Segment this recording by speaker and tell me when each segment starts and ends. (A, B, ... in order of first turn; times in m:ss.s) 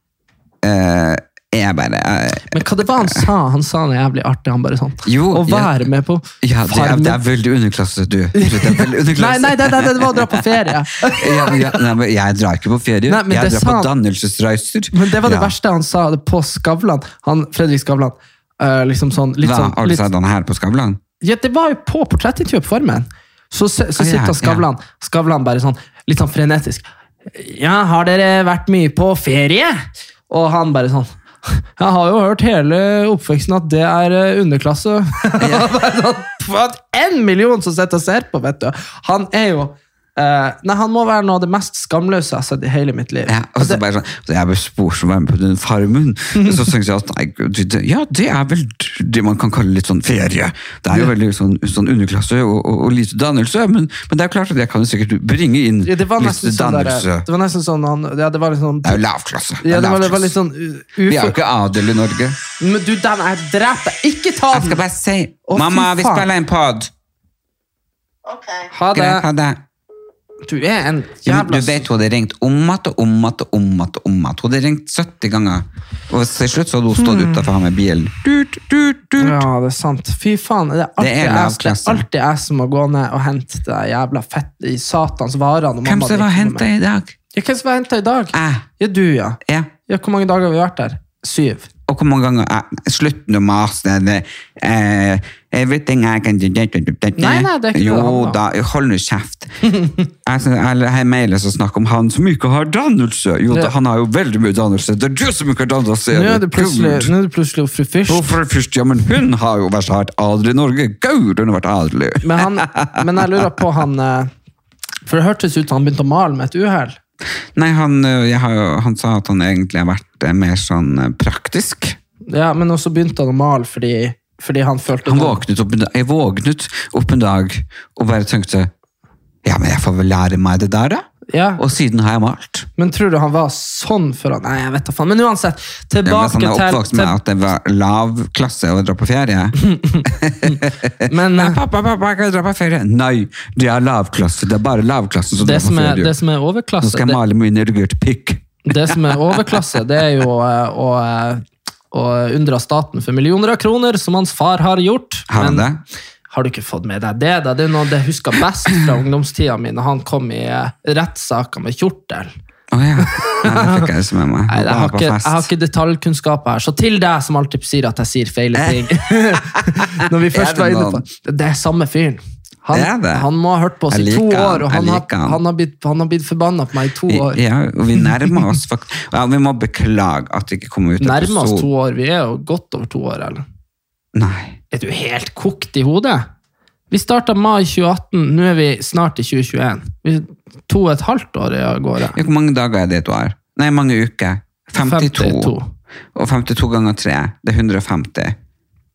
0:00.6-0:03.3 A
0:02.5-0:07.2 B
0:05.0-0:05.8 A
0:06.4-0:15.5 A
0:08.3-0:11.8 B
0:13.1-0:13.9 B
0:14.9-0:20.0 B
0:19.4-0:21.0 A
0:21.2-0:43.8 B
0:24.0-0:24.6 A
0:35.4-0:35.7 A
0:43.3-0:57.2 A
0:55.8-0:59.0 B
0:58.8-1:00.3 A
0:59.6-1:01.4 B
1:01.1-1:02.4 A
1:02.6-1:04.8 B
1:04.5-1:06.9 A
1:05.5-1:06.3 B
1:08.7-1:09.2 B
1:08.9-1:09.6 A
1:10.4-1:11.9 B
1:11.2-1:19.4 A
1:17.0-1:17.4 B
1:19.2-1:26.7 B
1:21.0-1:22.0 A
1:25.8-1:27.2 A
1:27.3-1:31.7 B
1:28.3-1:28.6 A
1:29.4-1:29.7 A
1:31.9-1:39.5 A
1:37.2-1:38.4 B
1:39.6-1:40.0 B
1:40.2-1:47.1 A
1:46.1-1:48.4 B
1:48.1-1:53.5 A
1:52.2-1:54.3 B
1:55.1-1:57.0 B
1:57.6-2:02.0 A
2:02.3-2:05.4 B
2:05.0-2:08.7 A
2:09.4-2:12.7 A
2:11.3-2:11.6 B
2:12.8-2:17.2 B
2:16.0-2:26.1 A
2:19.7-2:21.6 B
2:25.4-2:27.2 B
2:26.8-2:29.6 A
2:28.6-2:35.6 B
2:35.3-2:35.8 A
2:36.3-2:42.3 B
2:42.7-2:45.5 A
2:43.0-2:43.9 B
2:44.5-2:57.4 B
2:48.5-2:49.8 A
2:50.3-2:51.0 A
2:52.7-2:53.3 A
2:53.9-2:55.4 A
2:57.1-3:01.7 A
3:01.0-3:03.4 B
3:04.1-3:04.6 A
3:04.7-3:06.2 B
3:06.9-3:12.2 B
3:12.1-3:15.5 A
3:14.8-3:15.7 B
3:16.1-3:18.4 A